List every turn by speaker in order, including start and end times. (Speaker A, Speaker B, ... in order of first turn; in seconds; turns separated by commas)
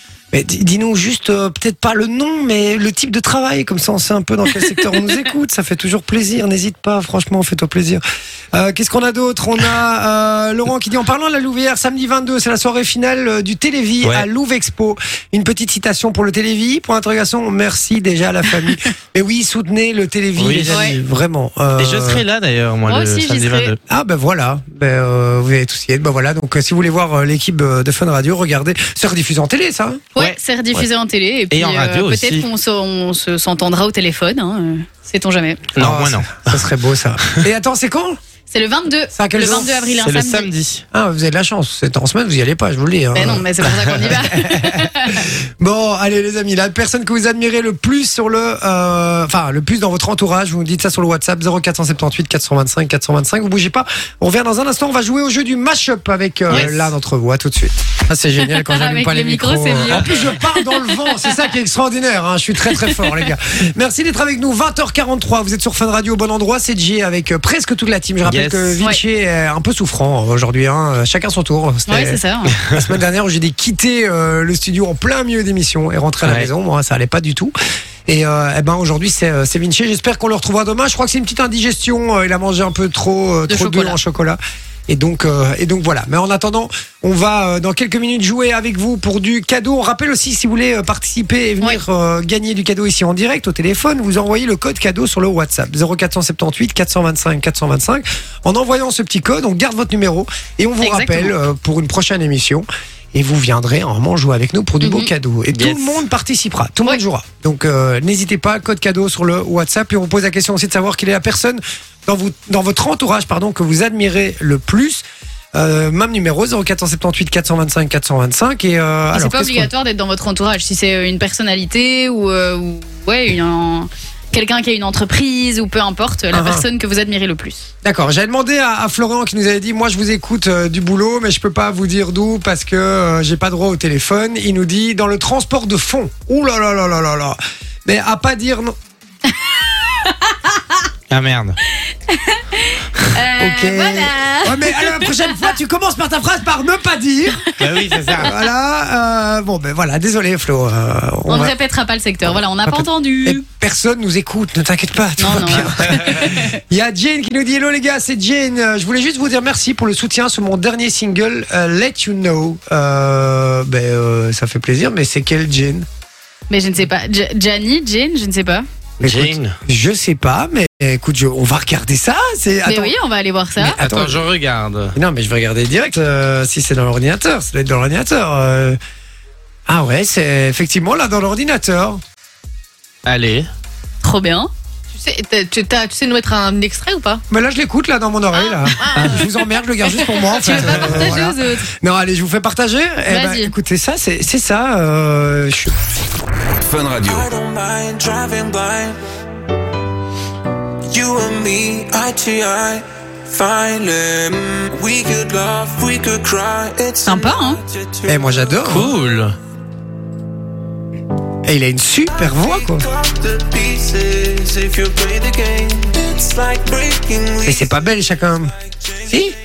Speaker A: 0.3-22.2, Speaker B: 20.4-20.8, Speaker C: 20.7-21.0, Speaker B: 21.8-23.8, Speaker C: 22.9-23.7, Speaker A: 23.9-30.0, Speaker C: 30.1-35.6, Speaker B: 30.2-30.9, Speaker B: 31.5-32.5, Speaker B: 35.8-36.6, Speaker A: 35.8-38.2, Speaker C: 38.5-40.5, Speaker A: 39.1-40.0, Speaker B: 40.0-40.8, Speaker A: 40.9-77.5, Speaker C: 43.1-45.2, Speaker B: 56.5-56.9, Speaker C: 58.4-61.4, Speaker B: 59.9-60.2, Speaker C: 62.7-63.1, Speaker B: 68.2-68.8, Speaker C: 71.9-72.5, Speaker B: 76.2-76.5, Speaker A: 78.0-115.0, Speaker C: 83.5-83.9, Speaker C: 100.8-101.3, Speaker C: 104.8-105.1, Speaker B: 105.5-106.0, Speaker A: 115.5-119.7, Speaker C: 119.1-127.7, Speaker A: 126.3-126.6, Speaker A: 127.8-138.7, Speaker C: 139.9-140.3, Speaker B: 141.1-141.6, Speaker C: 142.1-145.5, Speaker A: 143.4-147.4, Speaker B: 147.6-148.4, Speaker A: 148.2-151.5, Speaker C: 151.3-153.4, Speaker A: 152.6-165.8, Speaker C: 155.2-156.6, Speaker C: 166.5-168.7, Speaker B: 169.0-169.6, Speaker A: 169.0-172.9, Speaker C: 172.7-173.8, Speaker A: 173.6-174.3, Speaker B: 173.8-174.9, Speaker A: 174.9-178.8, Speaker A: 179.7-182.0, Speaker B: 183.1-183.5, Speaker C: 184.0-184.5, Speaker D: 184.9-187.2, Speaker A: 187.3-195.7, Speaker D: 188.5-190.2, Speaker C: 190.4-191.7, Speaker B: 190.5-190.9, Speaker C: 193.1-193.5, Speaker E: 196.6-199.0, Speaker E: 200.9-208.6, Speaker C: 207.0-207.6, Speaker A: 208.1-208.9, Speaker B: 208.7-209.3, Speaker A: 211.4-212.9, Speaker E: 212.1-217.8, Speaker A: 217.4-218.5, Speaker A: 219.1-219.3